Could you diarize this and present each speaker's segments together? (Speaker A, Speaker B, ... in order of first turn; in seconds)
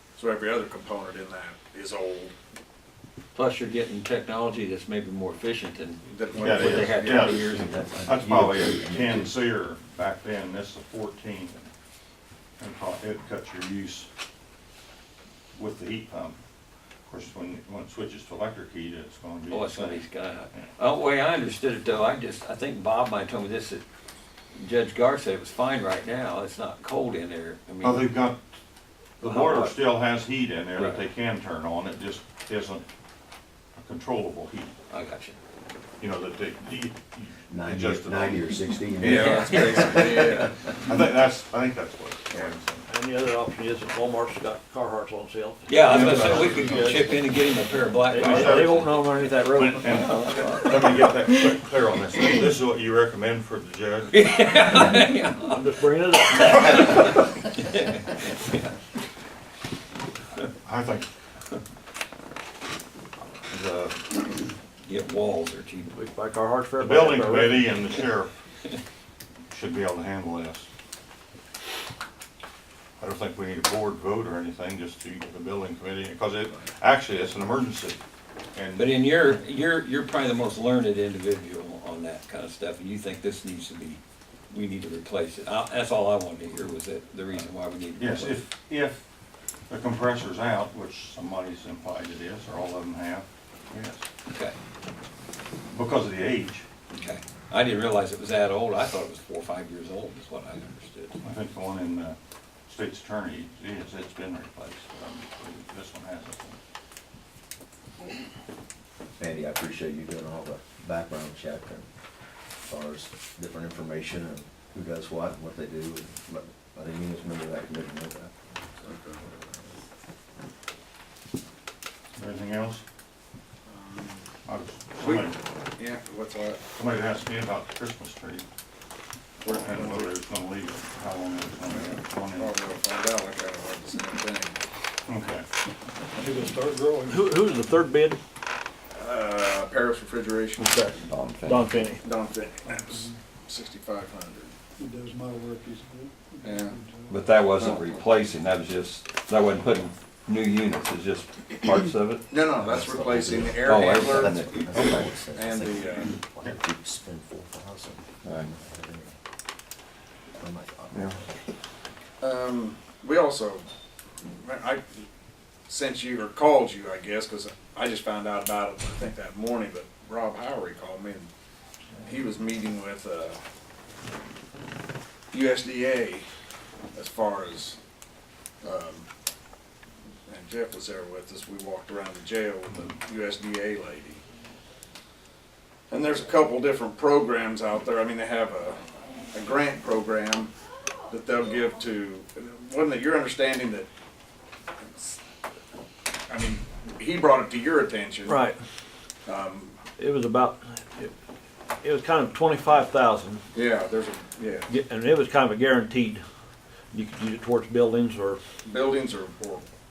Speaker A: 0.1-2.3, 6.0-7.3, 39.0-40.5, 118.8-119.2, 123.7-124.2, 125.0-126.6, 129.4-130.1, 131.7-134.6, 138.9-140.9, 142.0-144.5, 146.4-146.7, 147.6-147.9, 152.3-156.1, 162.2-163.6, 164.4-164.8, 165.7-171.3, 172.0-173.4, 175.3-176.2, 176.9-177.8, 178.6-179.1, 180.3-184.2, 185.9-188.8, 189.3-190.5, 191.1-193.9, 196.3-198.4, 199.2-199.8, 203.5-204.7, 208.6-209.7
Speaker B: 3.3-7.7, 19.5-23.8, 24.6-28.1, 29.2-29.8, 30.8-31.0, 34.9-35.4, 39.1-40.3, 45.7-49.2, 49.9-51.0, 54.1-55.7, 56.2-58.7, 64.8-65.9, 78.8-88.4, 94.3-94.5, 96.9-101.1
Speaker C: 6.4-11.7, 12.6-14.1, 15.5-16.4, 17.1-20.7, 27.8-28.4, 29.2-32.9, 33.8-34.7, 36.0-38.5, 39.0-39.3, 40.8-42.9, 45.9-47.1, 48.4-48.8, 49.5-54.8, 60.6-61.1, 63.5-64.0, 66.8-68.3, 69.5-70.7, 73.0-78.0, 78.5-78.9, 87.4-89.0, 89.7-94.1, 95.7-96.6, 101.2-102.2, 102.7-106.6, 122.2-122.8, 124.5-125.4, 126.8-128.4, 129.5-132.5, 135.1-135.4
Speaker D: 7.2-9.3, 37.5-40.5, 109.2-111.9, 112.6-119.5, 152.6-159.2, 160.4-161.3
Speaker E: 42.9-47.1, 48.0-50.2, 55.0-57.2, 65.9-67.7, 137.1-138.2, 140.6-142.0, 198.2-198.6, 200.0-201.1, 201.8-203.4, 204.7-206.2, 206.9-208.4
Speaker F: 136.1-137.2, 142.7-143.1, 144.8-147.2
Speaker G: 141.0-141.8, 147.1-152.3, 153.4-155.1, 158.2-158.5, 160.9-161.2